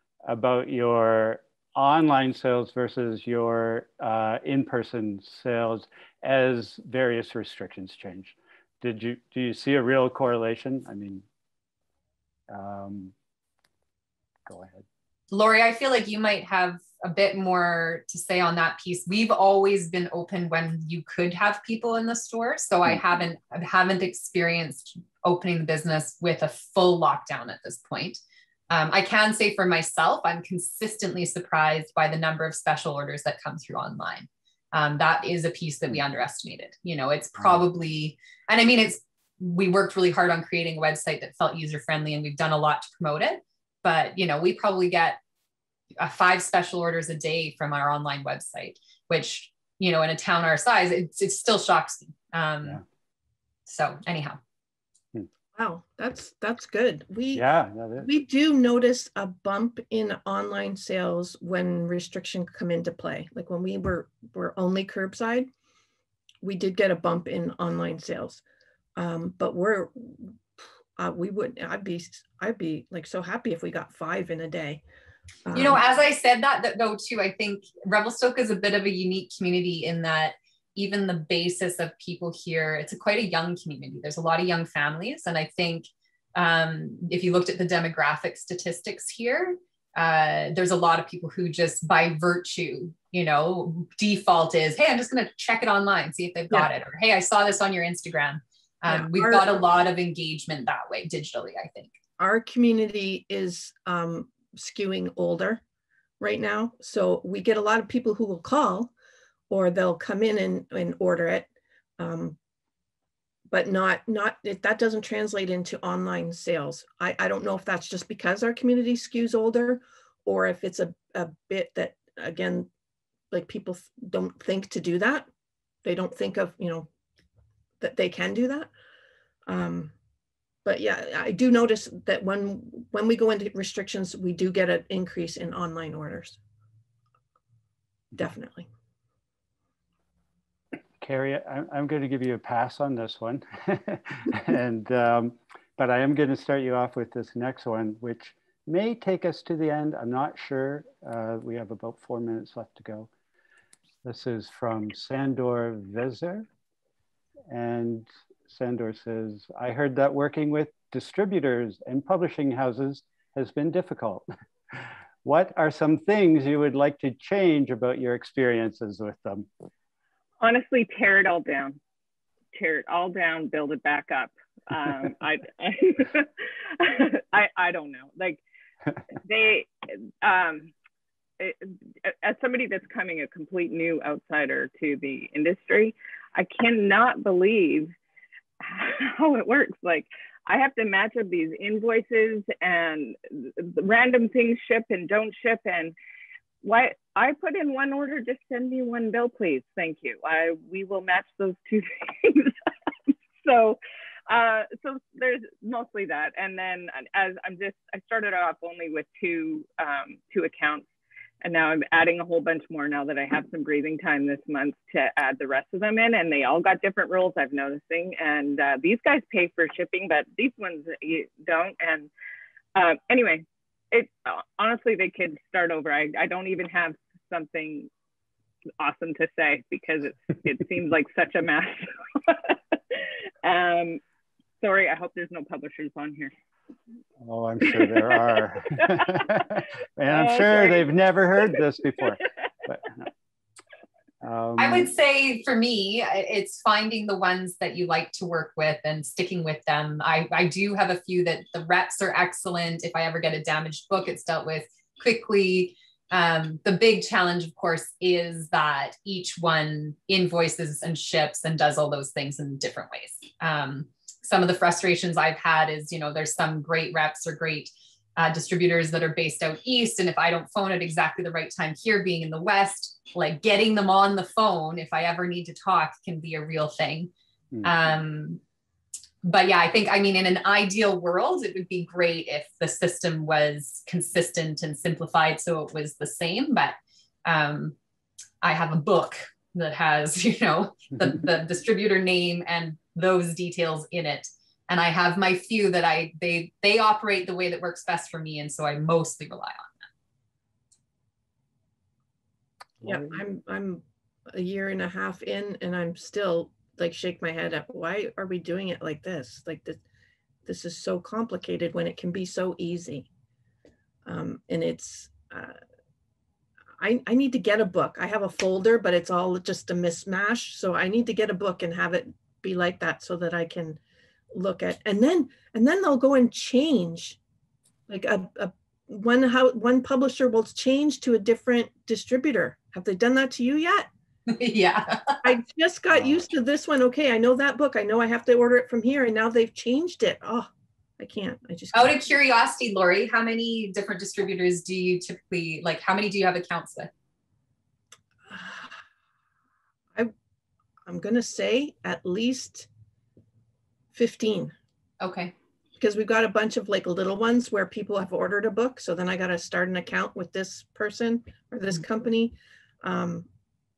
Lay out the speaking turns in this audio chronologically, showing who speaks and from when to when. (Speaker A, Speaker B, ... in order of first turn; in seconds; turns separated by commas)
Speaker A: 0.3-11.2, Speaker A: 12.5-13.1, Speaker A: 14.4-14.9, Speaker B: 15.3-45.2, Speaker B: 46.0-52.8, Speaker B: 53.7-54.4, Speaker C: 55.5-57.5, Speaker A: 57.3-58.1, Speaker C: 58.0-65.5, Speaker C: 66.4-68.4, Speaker C: 69.0-70.3, Speaker C: 71.0-74.8, Speaker C: 75.5-75.8, Speaker B: 75.5-102.0, Speaker C: 98.9-99.5, Speaker C: 102.2-105.6, Speaker C: 106.2-108.9, Speaker C: 109.5-112.4, Speaker C: 113.5-122.7, Speaker C: 123.3-125.3, Speaker C: 125.8-126.9, Speaker C: 127.8-128.7, Speaker C: 129.5-129.9, Speaker C: 130.6-136.4, Speaker C: 138.1-138.7, Speaker A: 141.0-153.1, Speaker A: 154.0-156.5, Speaker A: 157.5-169.5, Speaker D: 170.4-171.8, Speaker D: 172.5-178.4, Speaker D: 179.2-180.7, Speaker D: 181.4-187.9, Speaker D: 188.6-195.9, Speaker D: 196.6-210.9, Speaker D: 211.4-222.1, Speaker D: 222.7-227.9, Speaker D: 228.8-234.0, Speaker D: 234.6-236.3, Speaker A: 237.2-243.1, Speaker D: 237.7-239.4, Speaker D: 240.1-240.9, Speaker A: 244.2-244.9, Speaker B: 244.6-277.1, Speaker B: 277.6-278.4, Speaker B: 279.2-287.8, Speaker B: 288.4-299.7, Speaker C: 302.8-309.8, Speaker A: 302.8-303.2, Speaker C: 310.4-313.1, Speaker C: 314.1-315.6, Speaker C: 316.8-323.8, Speaker C: 324.3-327.2, Speaker C: 327.9-333.9, Speaker B: 334.3-335.2, Speaker C: 335.2-342.0, Speaker A: 335.9-336.2, Speaker B: 341.7-346.9, Speaker C: 348.3-348.7, Speaker C: 350.8-352.7, Speaker C: 353.9-354.5, Speaker B: 355.0-355.3, Speaker C: 355.8-363.3